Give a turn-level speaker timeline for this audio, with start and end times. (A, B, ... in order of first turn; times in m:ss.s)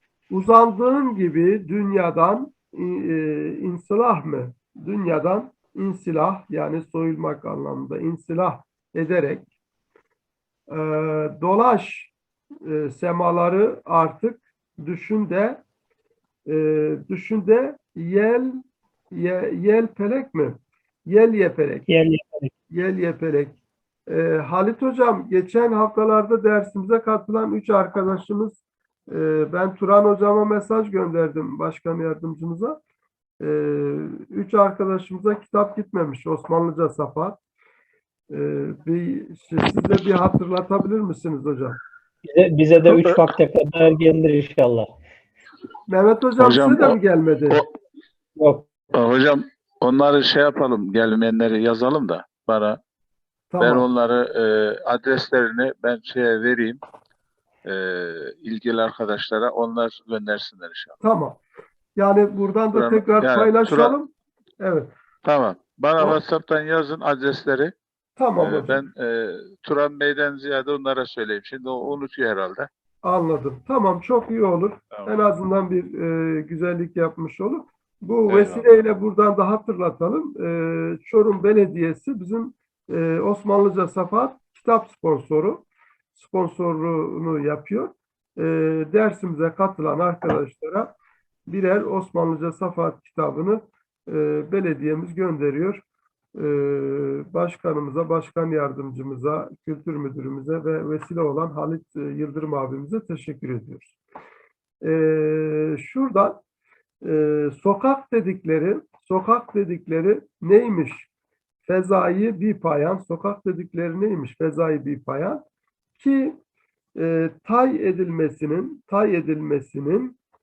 0:00.3-0:09.5 A
0:10.7-0:15.6 A
0:16.5-0:21.9 A
0:21.9-0:22.5 B
0:22.7-0:23.6 A
0:24.1-0:32.8 A
0:33.4-0:37.4 A
0:38.3-0:41.8 A
0:42.2-0:44.9 B
0:42.9-0:43.2 C
0:45.9-0:47.6 A
0:46.4-0:47.0 C
0:48.4-0:48.7 B
0:48.9-0:52.8 C
0:53.5-0:53.9 A
0:53.6-0:56.8 C
0:57.7-1:01.0 C
1:01.0-1:01.4 A
1:02.0-1:04.9 A
1:02.7-1:04.0 C
1:05.2-1:07.7 C
1:08.2-1:08.8 A
1:08.4-1:12.7 C
1:13.0-1:25.6 A
1:18.3-1:18.7 C
1:26.2-1:30.9 A
1:31.5-1:35.8 A
1:36.4-1:44.0 A
1:44.8-1:46.4 A
1:47.0-1:51.1 A
1:51.6-1:55.4 A
1:56.0-1:56.4 A
1:57.0-2:00.2 A